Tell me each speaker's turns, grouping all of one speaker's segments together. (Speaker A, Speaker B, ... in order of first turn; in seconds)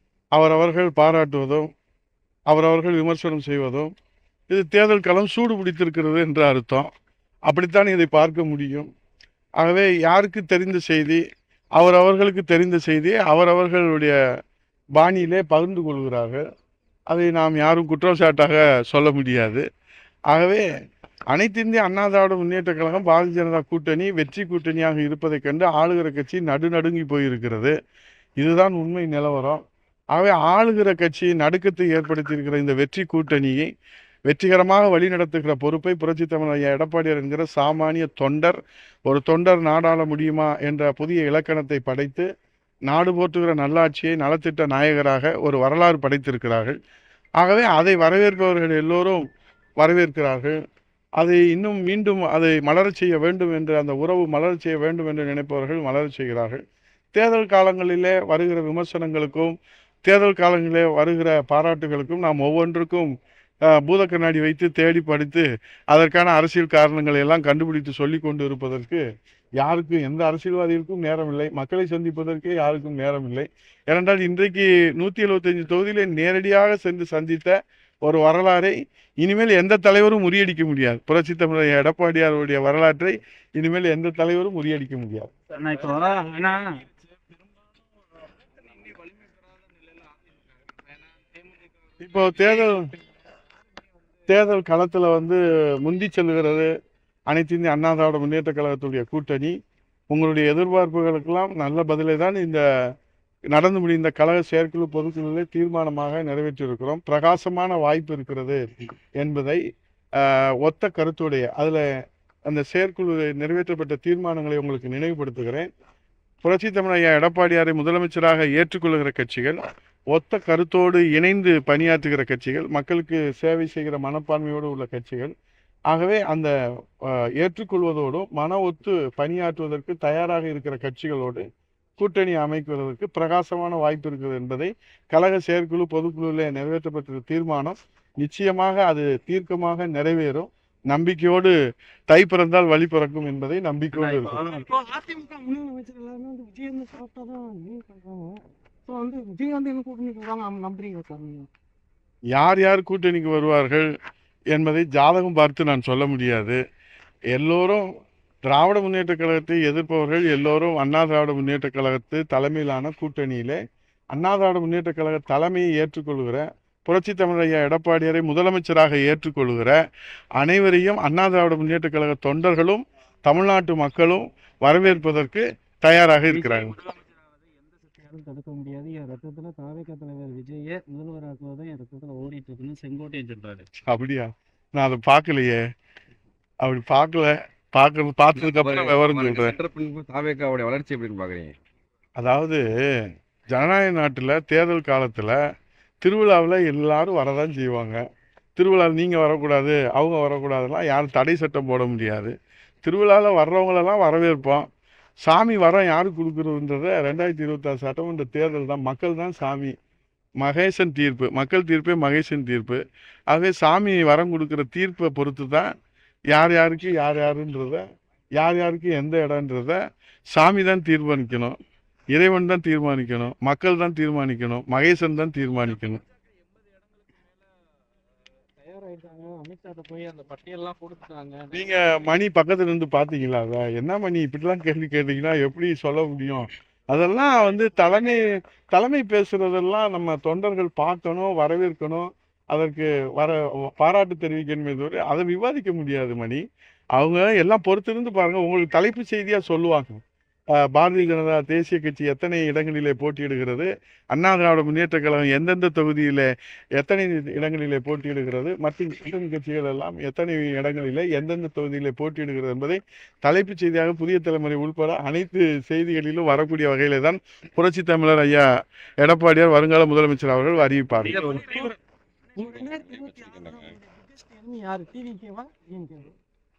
Speaker A: 0.3-1.7, 2.5-3.9, 4.5-6.9, 7.5-8.9, 9.6-11.2, 11.8-14.1, 15.0-16.4, 17.1-19.6, 20.3-20.6, 21.3-27.7, 28.4-29.6, 30.1-33.7, 34.3-42.3, 42.9-46.8, 47.4-49.2, 49.8-50.6, 51.2-56.6, 57.1-59.5, 60.0-63.1, 63.7-69.0, 69.6-85.3, 92.0-92.9, 94.3-96.7, 97.3-99.5, 100.1-102.6, 103.5-108.7, 109.2-109.6, 110.2-111.8, 112.5-115.7, 116.4-119.6, 120.1-125.3, 125.9-126.5, 127.0-131.4, 132.0-141.5, 142.1-144.4, 152.3-153.9, 154.5-156.6, 157.3-157.8, 158.4-163.6, 164.1-169.8, 170.4-176.8, 183.8-185.6, 186.6-189.6, 192.2-192.6, 193.5-195.4, 196.0-198.0, 198.6-202.3, 202.8-204.7, 205.2-209.7, 210.4-215.7, 216.3-217.8, 218.4-219.8, 220.3-221.6, 222.1-226.0, 231.5-246.4, 246.9-250.0, 250.6-256.3, 256.8-268.4, 269.0-271.6
Speaker B: 85.5-86.6, 88.8-89.3, 144.0-148.2, 148.9-150.9, 176.3-177.1, 177.8-183.7, 228.6-231.6, 271.1-271.7, 272.4-273.3, 274.1-276.0
Speaker C: 144.6-145.3, 145.9-146.4, 147.4-147.9, 149.9-151.3, 271.4-271.7, 272.4-276.1
Speaker D: 188.3-191.5, 272.4-273.7